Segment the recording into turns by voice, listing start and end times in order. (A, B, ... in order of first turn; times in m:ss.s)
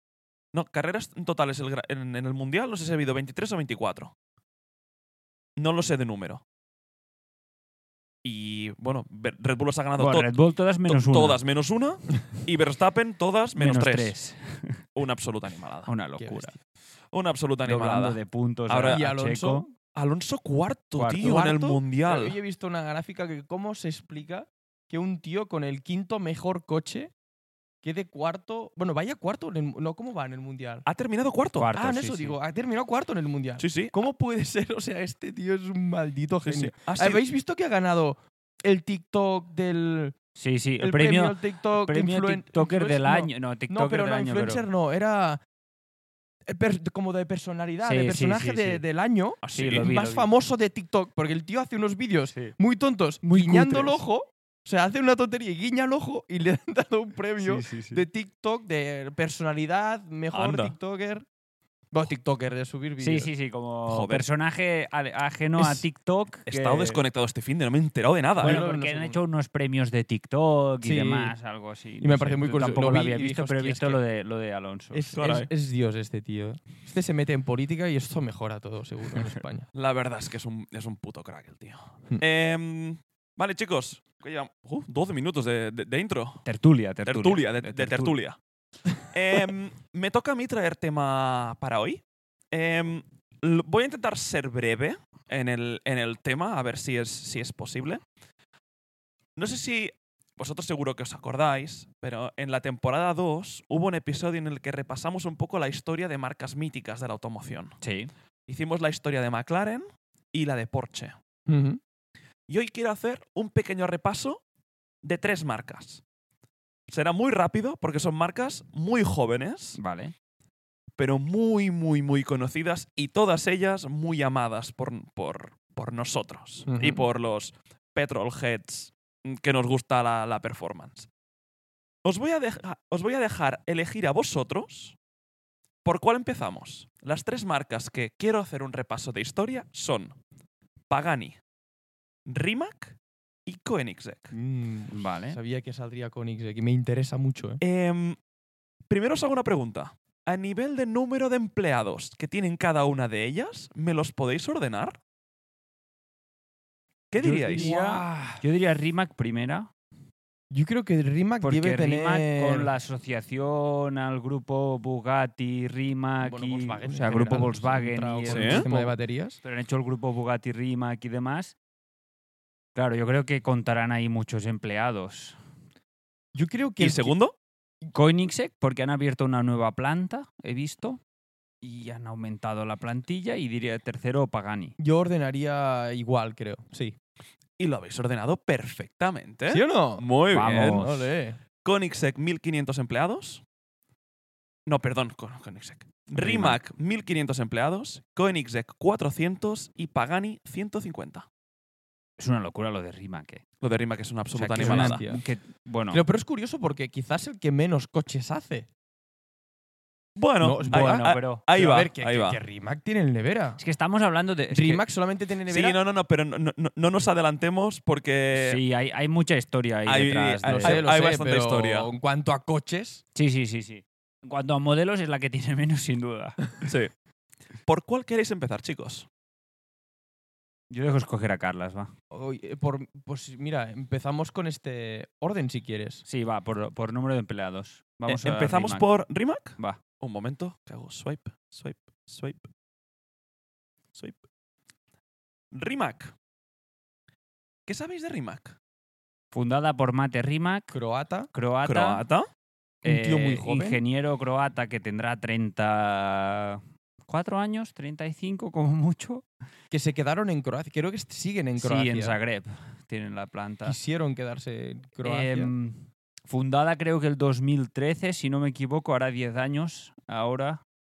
0:00.5-0:04.1 A
0:05.6-0:06.4 A
0:08.2-0:10.3 A
0:10.0-0:11.4 B
0:10.9-0:14.2 A
0:13.6-0:14.8 B
0:15.0-0:15.9 A
0:15.9-0:16.6 B
0:16.2-0:16.5 C
0:17.1-0:19.0 A
0:17.6-0:19.7 B
0:18.9-0:19.7 C
0:19.9-0:22.4 A
0:21.0-0:21.4 B
0:21.2-0:27.1 C
0:27.8-0:30.9 C
0:30.9-0:31.7 A
0:31.6-0:32.4 B
0:31.7-0:40.2 C
0:33.6-0:34.0 A
0:36.4-0:37.2 A
0:40.4-0:44.7 B
0:40.8-0:45.4 C
0:46.5-1:01.2 C
0:47.8-0:48.8 B
0:49.4-0:49.9 A
0:49.6-0:50.3 B
0:53.3-0:54.0 B
0:57.4-0:58.0 B
1:00.3-1:00.7 A
1:01.9-1:03.3 C
1:03.0-1:07.0 B
1:03.9-1:04.2 A
1:05.6-1:05.8 C
1:06.5-1:08.6 A
1:08.4-1:15.1 B
1:08.4-1:09.2 C
1:10.8-1:11.4 C
1:12.0-1:14.0 C
1:14.9-1:19.7 C
1:15.1-1:15.5 A
1:19.7-1:26.4 A
1:26.5-1:28.2 B
1:27.0-1:28.4 A
1:29.1-1:38.0 A
1:39.4-1:47.8 A
1:47.8-1:48.1 B
1:48.5-1:51.2 A
1:51.5-1:51.8 C
1:52.5-1:54.4 A
1:55.0-1:56.0 A
1:56.9-1:59.8 A
1:59.8-2:00.2 B
2:01.0-2:11.1 A
2:06.7-2:07.0 C
2:12.0-2:15.0 A
2:15.8-2:20.2 A
2:20.9-2:21.4 A
2:22.3-2:24.3 A
2:24.3-2:27.6 C
2:24.9-2:25.4 B
2:27.6-2:28.2 A
2:28.9-2:35.0 A
2:37.1-2:37.7 A
2:37.2-2:38.4 C
2:37.2-2:39.7 B
2:40.5-2:42.7 C
2:41.4-2:51.6 B
2:46.2-2:49.4 C
2:48.3-2:48.6 A
2:52.8-2:55.4 B
2:56.3-2:57.2 C
2:56.8-2:57.4 A
2:57.9-3:01.0 B
3:01.6-3:04.8 B
3:04.8-3:07.0 C
3:07.6-3:10.9 A
3:09.5-3:11.4 C
3:10.3-3:11.1 B
3:11.6-3:13.4 A
3:14.7-3:21.2 A
3:16.1-3:16.6 B
3:22.2-3:23.4 B
3:23.6-3:25.0 A
3:24.4-3:26.0 B
3:24.5-3:25.2 C
3:25.9-3:28.7 C
3:30.2-3:32.4 A
3:30.4-3:33.6 C
3:30.6-3:31.4 B
3:33.6-3:34.8 B
3:34.5-3:35.8 C
3:35.5-3:38.6 A
3:38.3-3:40.8 B
3:39.9-3:41.9 A
3:40.5-3:43.0 C
3:43.2-3:46.6 B
3:46.6-3:46.9 A
3:47.6-3:49.1 A
3:50.7-3:51.9 B
3:52.1-3:56.0 C
3:56.1-3:58.9 B
3:58.1-4:02.5 A
4:05.5-4:06.1 A
4:07.7-4:08.6 A
4:09.3-4:10.8 B
4:10.7-4:11.3 C
4:11.3-4:12.0 B
4:11.6-4:12.3 A
4:12.8-4:13.8 C
4:12.8-4:19.2 B
4:19.7-4:22.2 C
4:21.6-4:23.8 B
4:23.6-4:25.5 C
4:25.0-4:30.6 B